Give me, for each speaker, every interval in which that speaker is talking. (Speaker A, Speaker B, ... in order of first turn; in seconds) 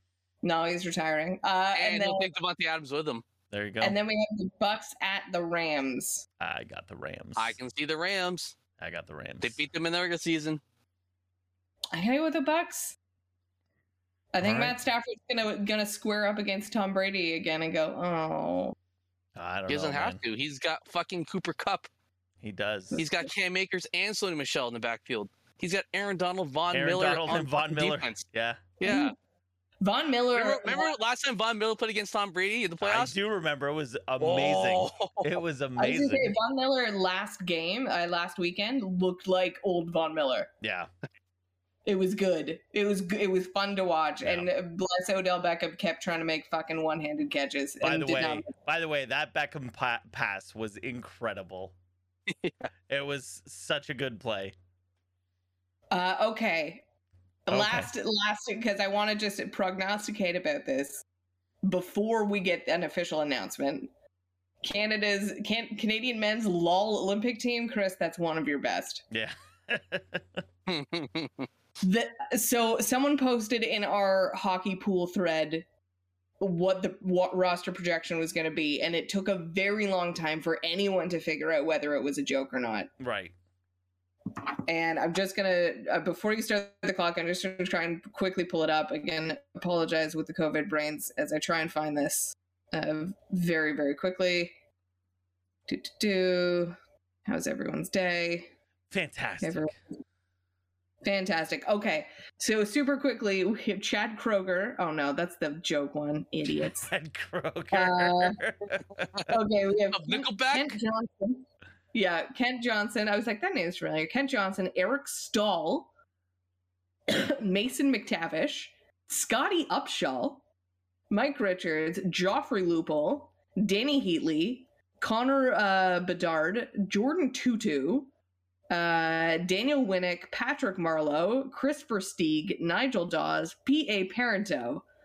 Speaker A: 0.4-2.3, 3.8-6.3, 11.9-13.0, 14.3-18.8, 22.9-23.3, 28.8-29.1, 29.8-30.9, 35.8-40.5, 41.9-48.5, 55.9-56.8, 57.5-61.0, 61.6-63.9, 64.6-69.0, 71.8-75.7, 76.4-82.9, 84.7-94.5, 95.7-98.5, 99.4-99.7, 101.0-106.9, 107.7-108.4, 109.3-115.9, 117.1-120.4, 121.1-128.1, 128.7-134.8
Speaker B: 1.7-3.3, 7.4-8.6, 9.4-10.6, 19.7-21.9, 23.0-28.2, 28.8-29.1, 30.3-33.1, 34.2-35.4, 52.3-52.7, 70.7-71.5, 109.9-110.8
Speaker C: 3.5-4.0, 6.4-7.6, 8.8-9.6, 14.4-14.8, 19.4-20.2, 22.4-23.0, 26.7-28.7, 32.8-36.4, 40.6-40.9, 44.2-44.5, 47.8-51.8, 52.9-54.5, 57.5-57.9, 69.1-70.4, 83.0-83.3, 98.9-99.7, 106.6-109.3